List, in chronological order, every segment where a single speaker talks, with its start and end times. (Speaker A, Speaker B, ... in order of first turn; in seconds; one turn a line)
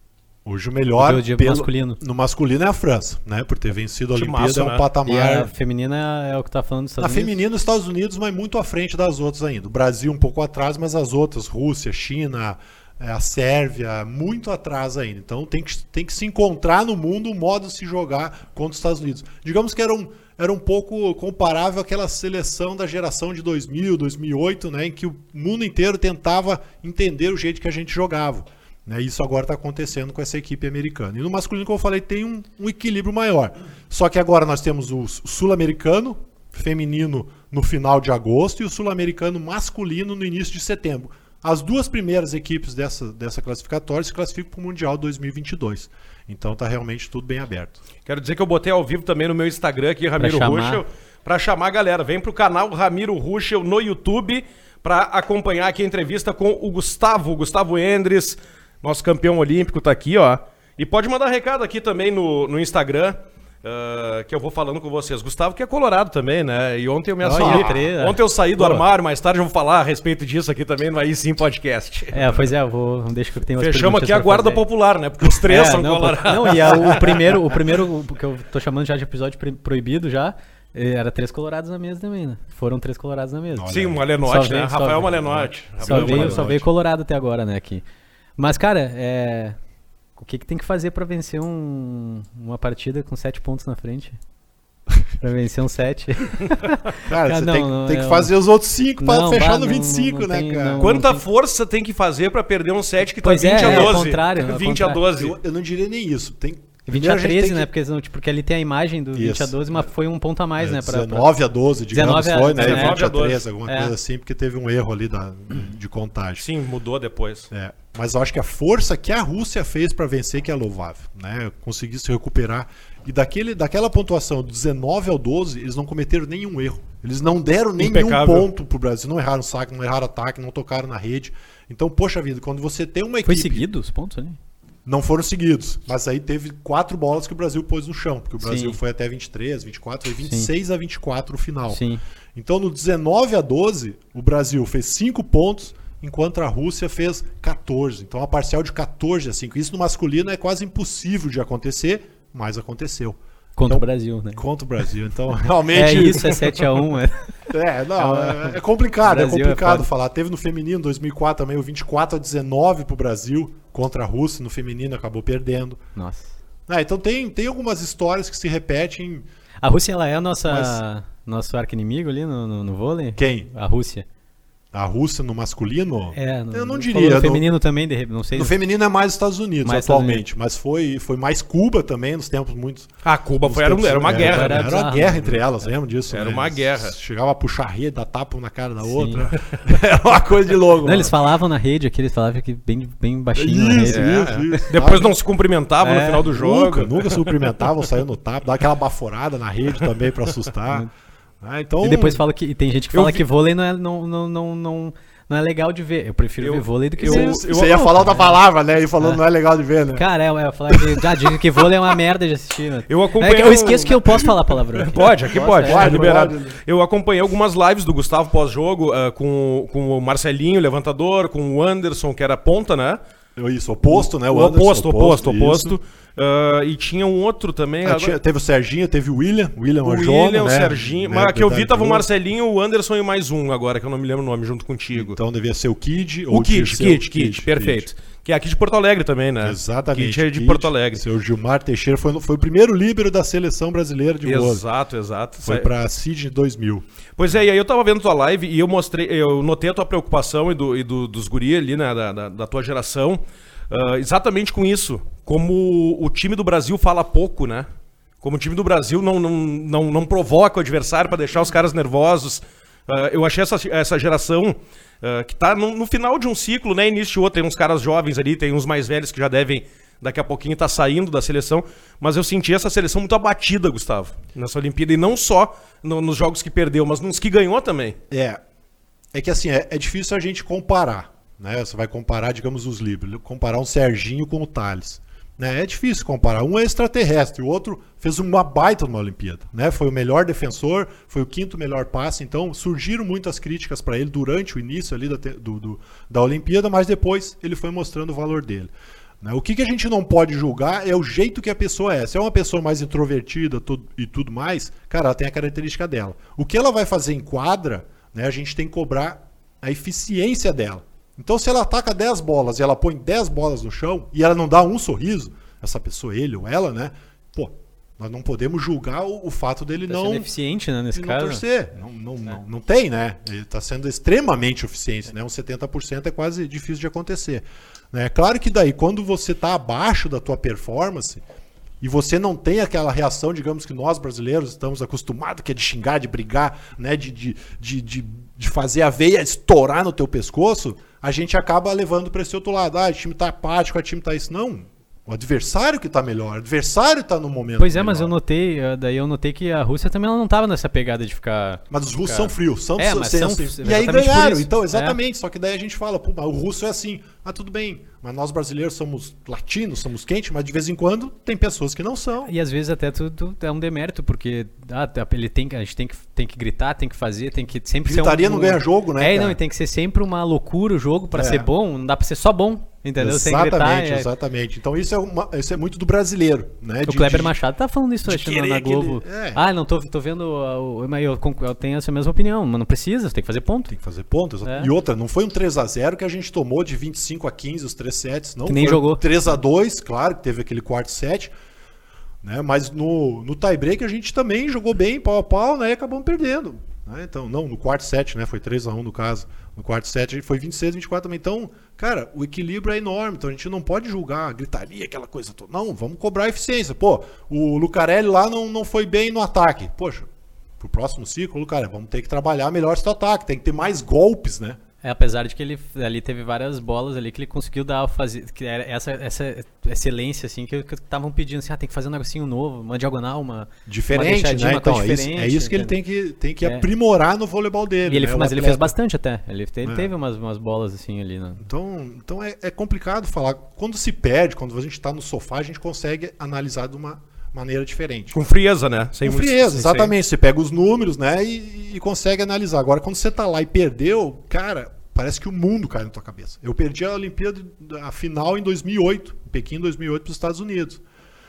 Speaker A: 0.4-5.5
Speaker B: 1.0-2.0
Speaker C: 4.1-4.8
Speaker B: 5.0-7.4
Speaker A: 7.0-47.8
Speaker C: 48.0-72.3
Speaker B: 50.2-50.8
Speaker B: 67.2-68.8
Speaker A: 67.3-67.7
Speaker B: 72.1-74.6
Speaker C: 73.6-77.2
Speaker B: 75.3-87.8
Speaker A: 83.5-84.0
Speaker C: 83.7-86.6
Speaker A: 85.3-86.6
Speaker B: 88.4-89.5
Speaker B: 90.2-94.2
Speaker B: 95.2-98.3
Speaker A: 97.0-100.9
Speaker B: 99.0-101.2
Speaker C: 100.8-105.3
Speaker B: 103.2-105.0
Speaker A: 103.6-104.0
Speaker A: 105.1-107.7
Speaker B: 106.9-111.3
Speaker A: 109.1-109.8
Speaker A: 110.6-116.5
Speaker B: 111.9-113.0
Speaker C: 112.6-113.4
Speaker B: 113.7-113.9
Speaker C: 116.4-117.5
Speaker A: 117.5-133.7
Speaker C: 127.8-128.5
Speaker B: 133.2-134.4
Speaker A: 134.8-141.8
Speaker B: 138.4-138.8
Speaker B: 141.7-142.0
Speaker A: 142.3-156.5
Speaker B: 153.6-154.4
Speaker B: 155.7-157.3
Speaker A: 157.5-165.8
Speaker B: 158.0-159.9
Speaker B: 165.9-166.3
Speaker A: 166.7-169.3
Speaker B: 169.6-174.1
Speaker A: 170.5-170.8
Speaker A: 173.2-173.5
Speaker A: 174.7-177.5
Speaker B: 176.2-178.5
Speaker A: 178.3-182.9
Speaker B: 179.6-180.2
Speaker C: 183.0-184.7
Speaker A: 183.4-191.2
Speaker B: 184.0-185.4
Speaker C: 186.1-186.9
Speaker B: 188.8-189.3
Speaker B: 190.8-194.6
Speaker A: 193.3-195.1
Speaker C: 193.9-197.4
Speaker B: 195.8-196.3
Speaker A: 196.3-200.9
Speaker A: 201.4-202.2
Speaker B: 201.8-208.4
Speaker C: 202.9-203.2
Speaker C: 206.4-207.8
Speaker A: 207.1-210.1
Speaker B: 209.9-216.2
Speaker A: 210.7-211.9
Speaker C: 212.9-214.3
Speaker C: 214.8-223.0
Speaker A: 215.4-216.6
Speaker A: 223.3-225.8
Speaker C: 223.9-228.2
Speaker A: 227.8-232.1
Speaker C: 229.8-235.2
Speaker A: 234.9-237.9
Speaker C: 236.3-241.0
Speaker A: 239.4-244.6
Speaker C: 244.2-245.7
Speaker A: 245.4-246.8
Speaker C: 247.2-257.7
Speaker C: 258.2-278.0
Speaker A: 278.1-278.4
Speaker A: 279.1-298.7
Speaker A: 299.2-320.3
Speaker B: 319.9-321.4
Speaker A: 320.9-331.2
Speaker A: 331.8-348.1
Speaker B: 347.6-355.0
Speaker A: 351.7-362.3
Speaker B: 362.2-374.1
Speaker A: 367.8-369.4
Speaker A: 371.1-371.5
Speaker A: 373.0-377.3
Speaker B: 376.8-383.7
Speaker A: 378.1-379.4
Speaker A: 383.7-391.3
Speaker B: 384.4-384.7
Speaker B: 388.4-389.0
Speaker A: 392.2-410.1
Speaker A: 410.6-414.6
Speaker B: 414.8-425.7
Speaker A: 423.7-428.7
Speaker B: 427.8-431.4
Speaker A: 429.6-429.9
Speaker A: 431.4-438.2
Speaker C: 438.1-439.9
Speaker A: 439.0-450.8